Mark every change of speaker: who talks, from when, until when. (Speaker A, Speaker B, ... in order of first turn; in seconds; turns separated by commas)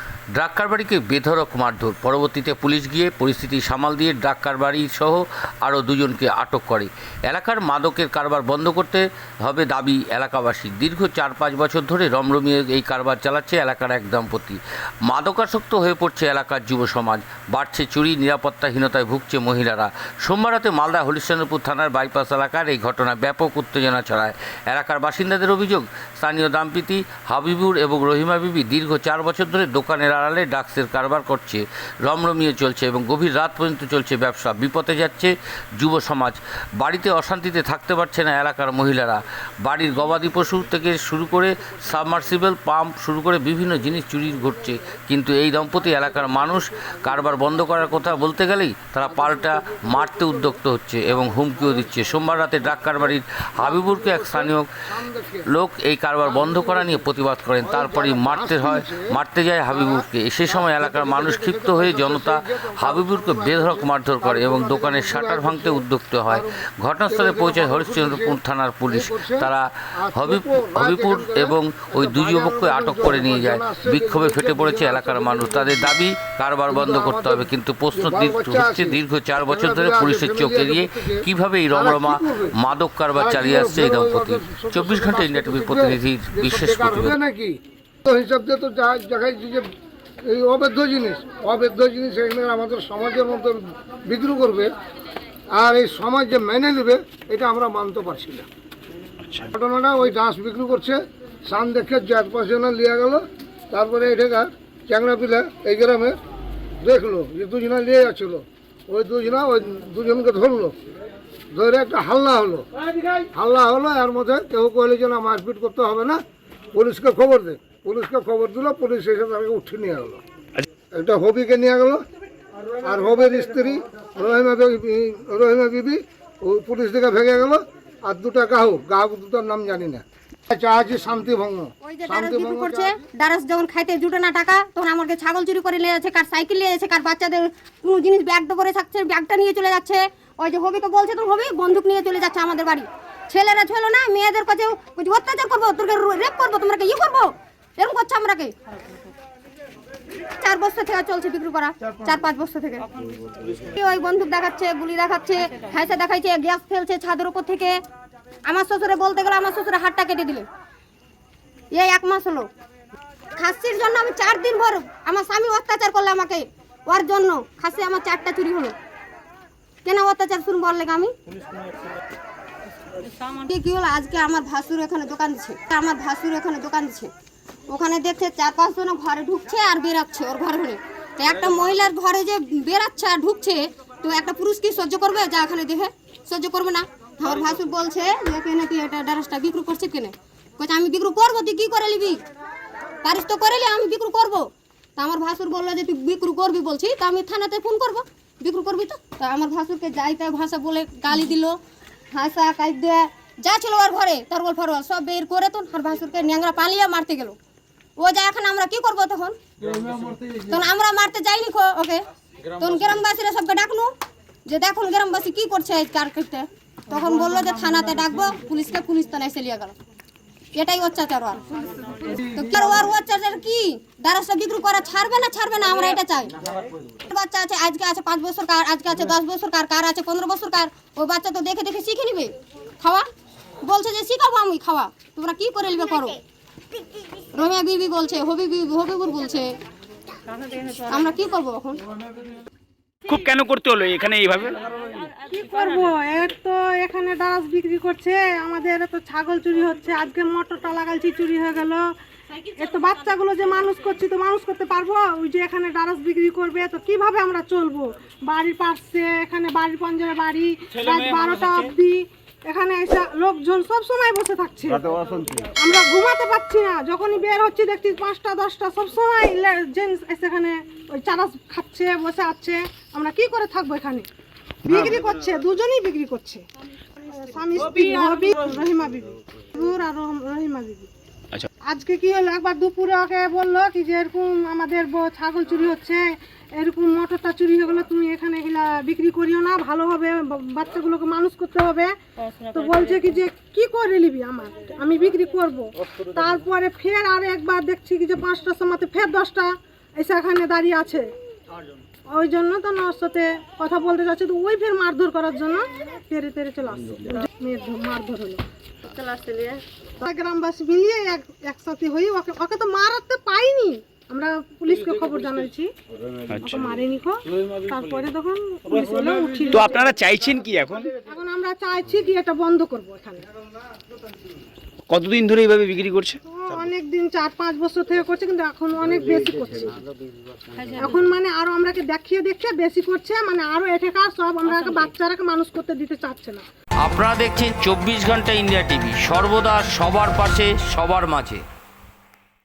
Speaker A: 0.3-54.7, Speaker B: 46.1-47.1, Speaker B: 49.0-50.5, Speaker B: 51.3-51.9, Speaker B: 53.6-55.5, Speaker A: 55.5-87.2, Speaker B: 56.3-57.0, Speaker B: 57.6-59.2, Speaker B: 59.7-66.5, Speaker B: 67.1-75.9, Speaker B: 76.7-82.5, Speaker B: 83.2-89.7, Speaker B: 90.2-94.7, Speaker B: 95.5-98.5, Speaker B: 99.5-106.2, Speaker B: 106.8-110.8, Speaker B: 111.5-112.7, Speaker B: 113.3-116.2, Speaker B: 116.7-120.2, Speaker B: 120.9-122.0, Speaker B: 122.8-132.9, Speaker C: 131.8-148.5, Speaker C: 150.4-152.9, Speaker C: 153.6-157.8, Speaker C: 158.5-160.5, Speaker C: 161.7-162.5, Speaker C: 163.4-168.8, Speaker C: 169.8-171.1, Speaker C: 173.4-177.1, Speaker C: 177.7-192.2, Speaker C: 193.0-201.6, Speaker C: 202.1-207.3, Speaker C: 208.0-209.4, Speaker C: 210.4-212.0, Speaker C: 212.6-213.9, Speaker C: 214.4-219.7, Speaker C: 220.5-221.4, Speaker C: 222.1-226.3, Speaker C: 227.1-233.1, Speaker C: 233.6-236.2, Speaker C: 237.3-239.5, Speaker C: 240.6-241.8, Speaker D: 243.1-244.6, Speaker E: 245.3-251.8, Speaker E: 252.5-274.1, Speaker E: 274.6-276.4, Speaker E: 277.0-280.9, Speaker E: 281.6-301.1, Speaker E: 302.1-308.4, Speaker C: 308.8-309.6, Speaker E: 310.0-315.7, Speaker E: 316.4-320.0, Speaker D: 319.6-320.9, Speaker E: 321.0-323.2, Speaker D: 324.9-326.2, Speaker E: 326.3-329.9, Speaker E: 330.8-336.4, Speaker A: 336.8-341.4